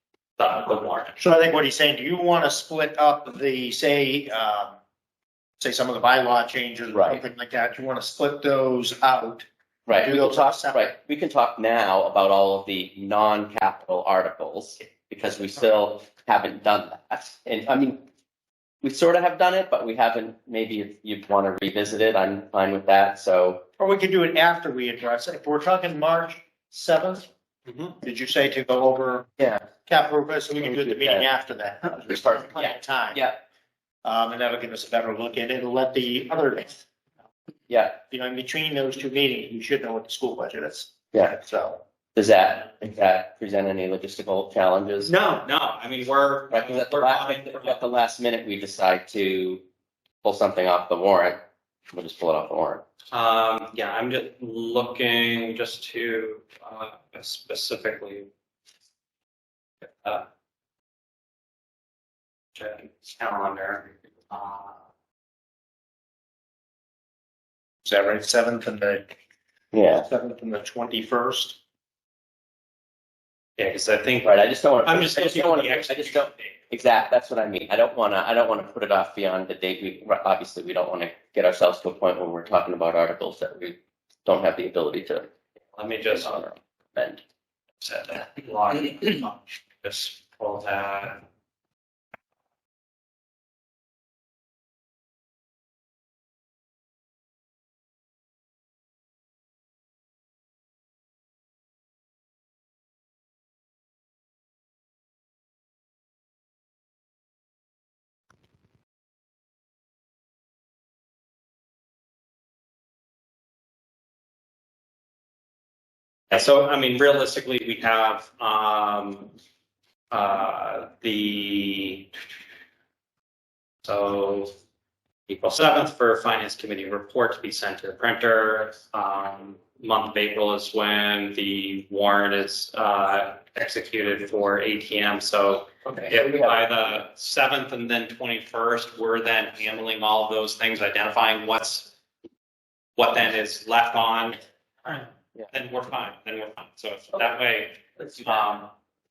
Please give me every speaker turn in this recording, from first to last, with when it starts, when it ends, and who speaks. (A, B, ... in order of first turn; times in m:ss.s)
0:00.4-0:01.2 A
0:01.2-0:04.8 B
0:05.6-0:10.9 B
0:06.9-0:07.2 C
0:09.9-0:18.0 C
0:18.8-0:23.6 C
0:23.8-0:29.3 B
0:29.4-0:29.6 C
0:29.8-0:33.2 B
0:30.6-0:31.2 C
0:32.1-0:33.4 C
0:34.0-0:36.8 B
0:37.7-0:38.0 C
0:38.1-0:41.8 B
0:42.1-0:45.1 C
0:45.0-0:47.8 A
0:46.5-0:49.6 C
0:50.2-0:51.4 C
0:51.9-0:52.8 C
0:53.1-0:58.3 A
1:02.6-1:04.8 A
1:07.8-1:09.1 B
1:09.7-1:10.1 C
1:10.0-1:11.6 B
1:13.6-1:16.5 A
1:14.2-1:25.3 C
1:25.8-1:26.5 A
1:26.2-1:27.2 C
1:27.8-1:31.2 A
1:56.3-1:59.3 A
2:00.1-2:02.1 A
2:03.8-2:04.5 A
2:05.3-2:21.9 A
2:15.8-2:16.7 C
2:23.0-2:28.7 A
2:28.1-2:28.4 C